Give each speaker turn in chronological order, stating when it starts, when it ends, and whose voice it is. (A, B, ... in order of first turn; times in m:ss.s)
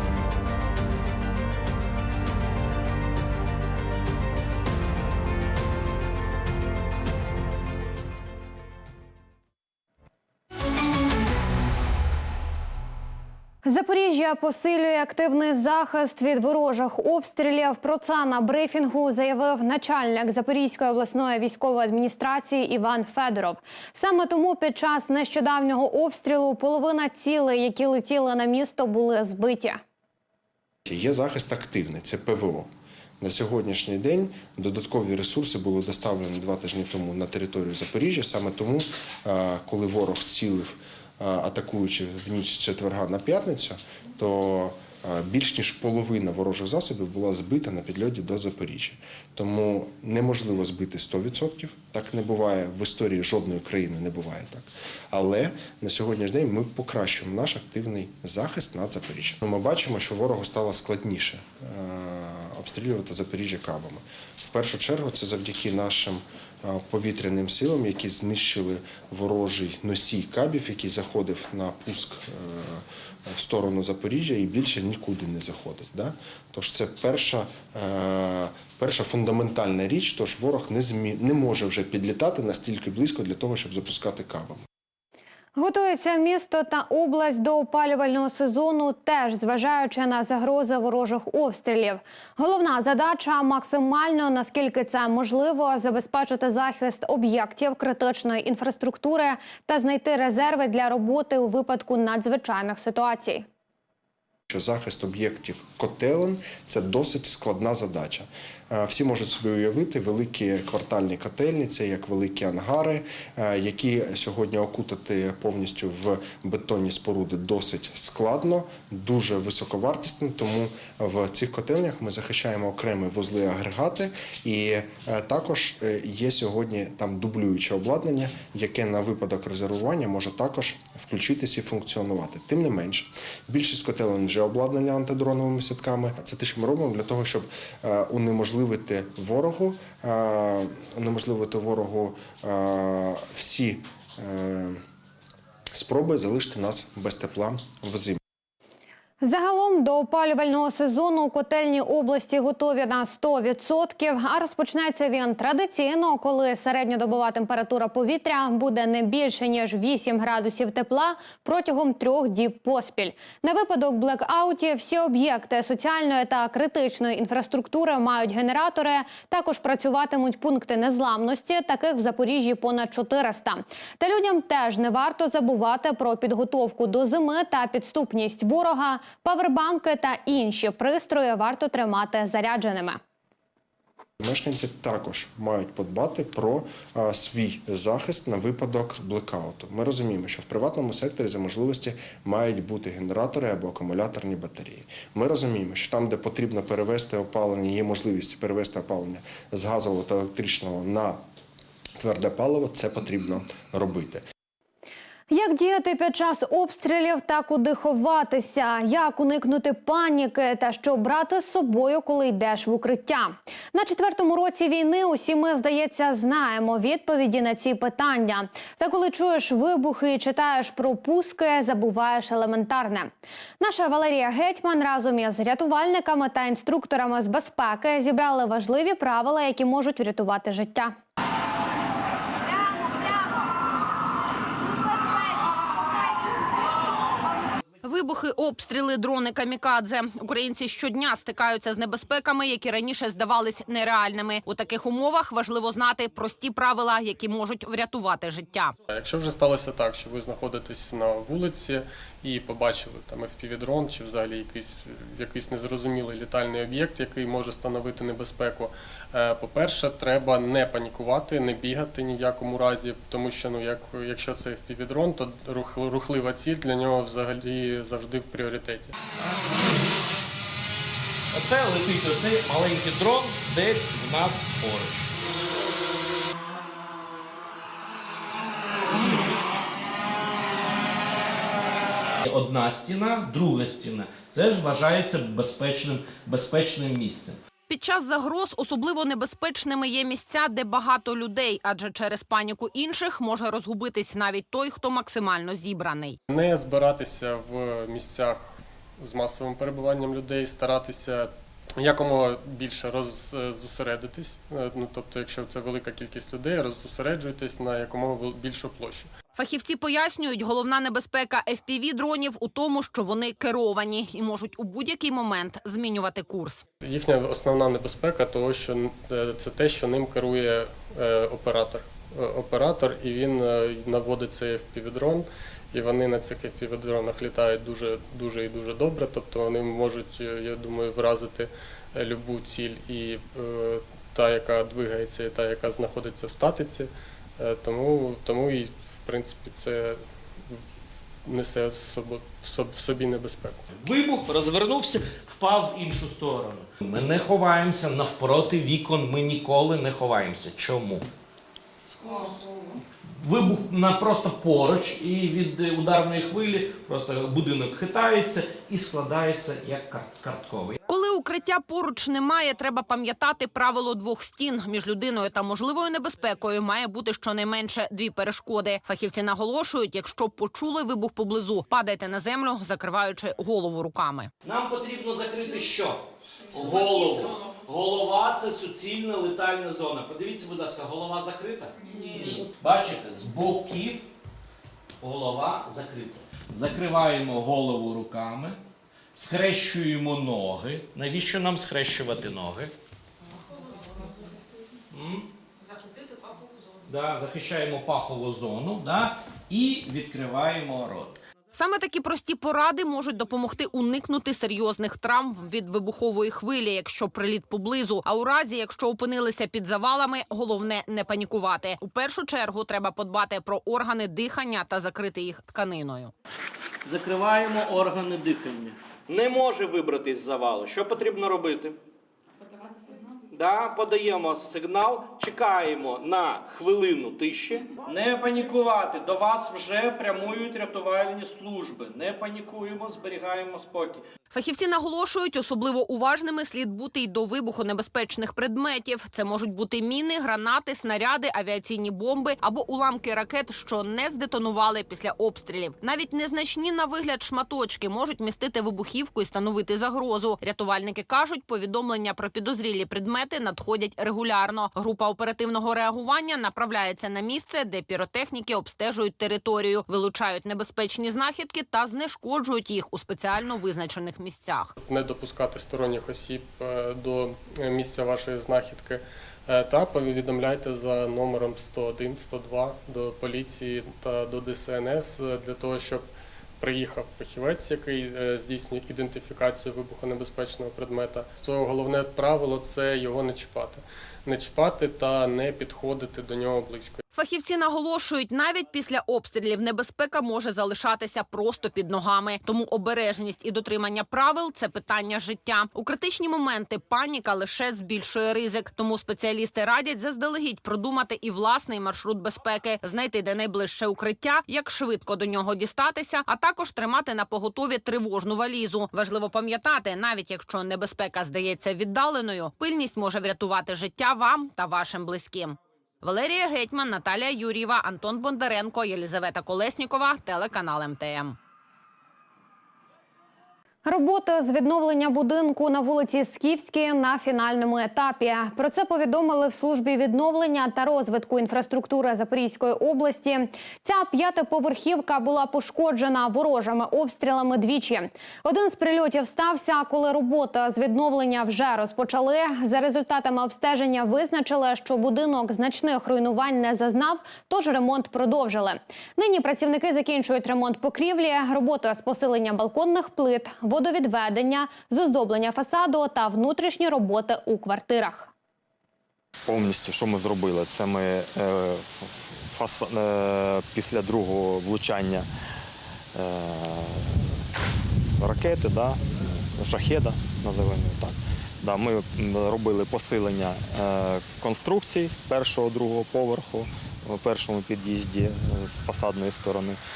0:13.6-0:29.8 A
0:30.9-1:24.6 B
1:25.6-1:43.5 A
1:44.5-2:24.8 B
2:25.7-2:28.2 B
2:29.2-3:03.0 A
3:04.2-3:21.2 B
3:22.0-3:24.2 B
3:25.3-3:51.0 A
3:57.8-4:08.8 C
4:08.9-4:28.9 D
4:31.3-4:35.2 E
4:42.2-4:47.4 E
4:47.7-4:56.2 C
4:56.3-5:09.1 D
5:09.4-5:16.6 C
5:16.8-5:40.6 D
5:41.2-5:43.6 D
5:43.7-5:51.1 E
5:53.2-6:00.8 E
6:00.9-6:14.3 C
6:14.4-6:24.1 E
6:25.0-6:28.6 E
6:29.2-6:32.7 E
6:34.9-6:35.3 E
6:36.9-6:41.2 E
6:41.5-6:56.1 C
6:56.9-7:01.8 E
7:03.3-7:14.0 E
7:14.3-7:44.7 C
7:44.8-7:56.1 D
7:56.6-8:07.0 D
8:07.1-8:41.4 C
8:43.8-9:18.3 A
9:19.5-9:25.3 F
9:26.1-9:27.4 F
9:28.2-9:39.8 F